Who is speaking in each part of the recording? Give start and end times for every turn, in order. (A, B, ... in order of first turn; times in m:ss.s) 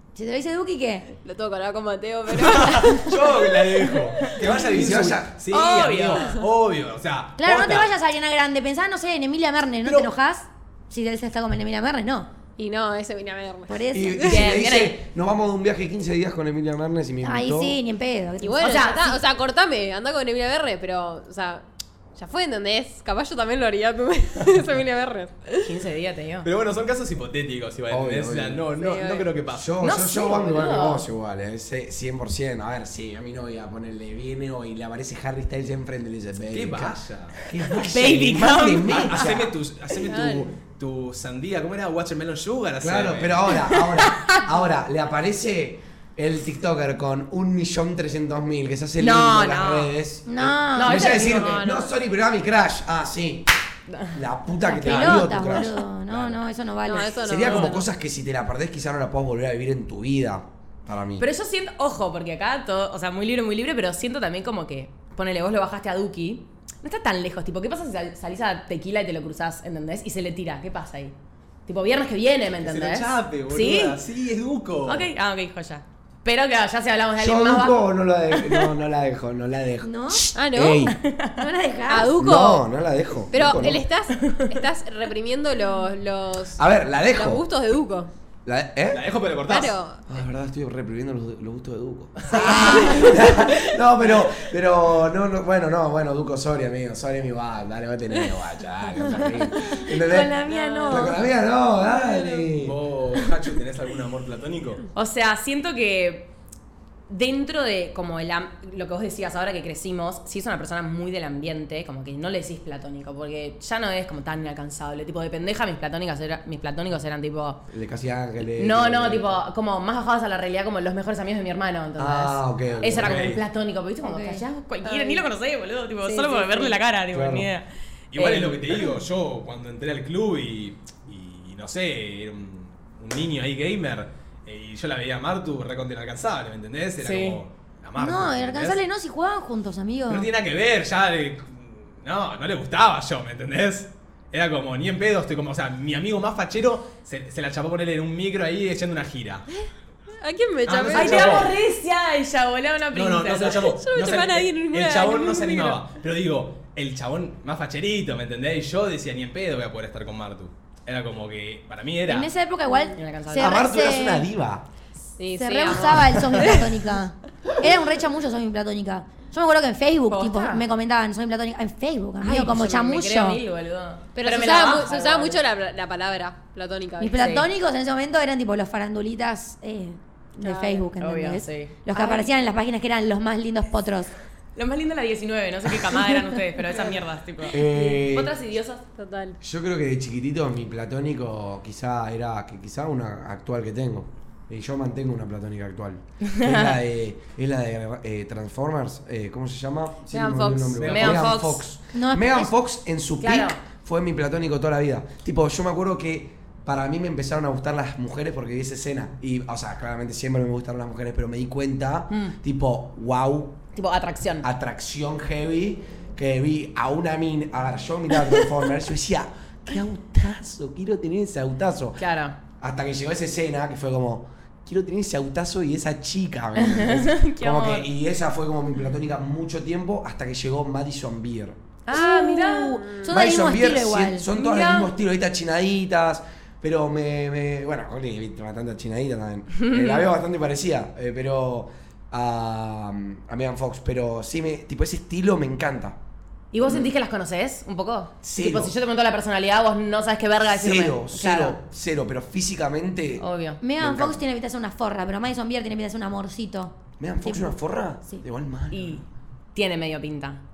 0:00.1-0:01.1 A
0:01.2-0:03.6 B
0:02.3-0:07.9 C
0:04.4-0:05.4 D
0:05.5-0:06.4 E
0:06.1-0:06.4 B
0:07.4-0:12.3 A
0:09.8-0:10.1 C
0:12.6-0:14.3 B
0:13.7-0:14.5 A
0:13.9-0:17.8 D
0:14.2-0:15.0 E
0:17.2-0:19.0 A
0:18.4-0:25.8 B
0:18.6-0:19.1 E
0:25.6-0:26.5 E
0:26.4-0:29.7 C
0:27.9-0:28.6 D
0:28.8-0:29.3 B
0:29.5-0:39.5 D
0:29.8-0:31.0 E
0:36.5-0:37.4 C
0:37.7-0:39.3 E
0:38.8-0:43.5 C
0:40.0-0:40.5 B
0:42.8-0:53.5 D
0:43.7-0:44.4 E
0:49.0-0:49.9 E
0:50.3-0:51.1 A
0:50.7-0:51.6 E
0:51.0-0:51.9 B
0:53.9-0:54.2 E
0:54.1-0:56.4 D
0:54.6-0:57.3 A
0:54.9-0:55.3 C
0:56.8-0:57.9 B
0:57.2-1:01.3 D
1:01.2-1:11.1 E
1:11.6-1:14.0 E
1:12.6-1:15.1 C
1:14.8-1:18.7 E
1:17.2-1:21.0 D
1:19.8-1:20.3 A
1:20.3-1:20.9 B
1:20.8-1:21.4 E
1:21.4-1:22.2 A
1:21.9-1:22.6 B
1:22.2-1:23.8 D
1:23.3-1:26.6 B
1:24.2-1:24.5 E
1:26.6-1:27.4 D
1:27.1-1:28.1 B
1:28.4-1:29.0 D
1:28.9-1:29.8 C
1:29.5-1:30.0 B
1:30.1-1:42.8 D
1:32.4-1:33.0 E
1:32.4-1:33.1 B
1:39.7-1:41.2 A
1:40.4-1:41.1 B
1:42.5-1:44.8 C
1:44.9-1:46.3 E
1:47.1-1:57.7 E
1:57.7-1:59.4 D
1:58.6-2:09.0 E
2:02.0-2:03.4 D
2:02.9-2:03.4 C
2:04.0-2:04.4 A
2:04.8-2:05.2 B
2:06.0-2:06.8 B
2:07.1-2:07.5 D
2:08.1-2:18.8 C
2:17.0-2:17.4 E
2:18.0-2:20.3 A
2:20.1-2:29.5 C
2:30.2-2:31.4 B
2:30.6-2:31.5 C
2:30.9-2:33.7 E
2:32.9-2:42.3 C
2:33.6-2:35.8 B
2:42.1-2:44.3 A
2:42.9-2:43.7 E
2:43.3-2:44.6 D
2:45.2-2:46.8 B
2:45.4-2:53.4 A
2:50.1-2:50.6 E
2:52.2-2:55.4 E
2:54.1-2:57.3 B
2:57.0-3:04.1 A
2:57.1-2:57.5 E
3:00.4-3:02.3 E
3:04.6-3:08.8 E
3:07.4-3:08.3 D
3:08.9-3:09.4 B
3:09.4-3:33.6 D
3:16.3-3:16.8 E
3:20.1-3:21.6 E
3:20.7-3:21.3 C
3:21.9-3:22.5 A
3:23.2-3:23.6 E
3:32.1-3:32.3 E
3:33.7-3:34.5 E
3:34.4-3:51.6 D
3:42.0-3:42.4 E
3:46.6-3:47.9 E
3:51.8-3:53.0 E
3:51.9-3:54.2 A
3:52.8-3:53.1 B
3:53.0-4:06.0 D
3:54.3-3:54.9 E
3:59.6-4:00.1 E
4:06.5-4:11.6 E
4:06.6-4:06.9 D
4:08.2-4:08.7 D
4:10.5-4:13.2 D
4:13.2-4:13.6 E
4:13.6-4:17.6 A
4:13.8-4:14.2 D
4:17.0-4:19.0 D
4:18.7-4:20.4 E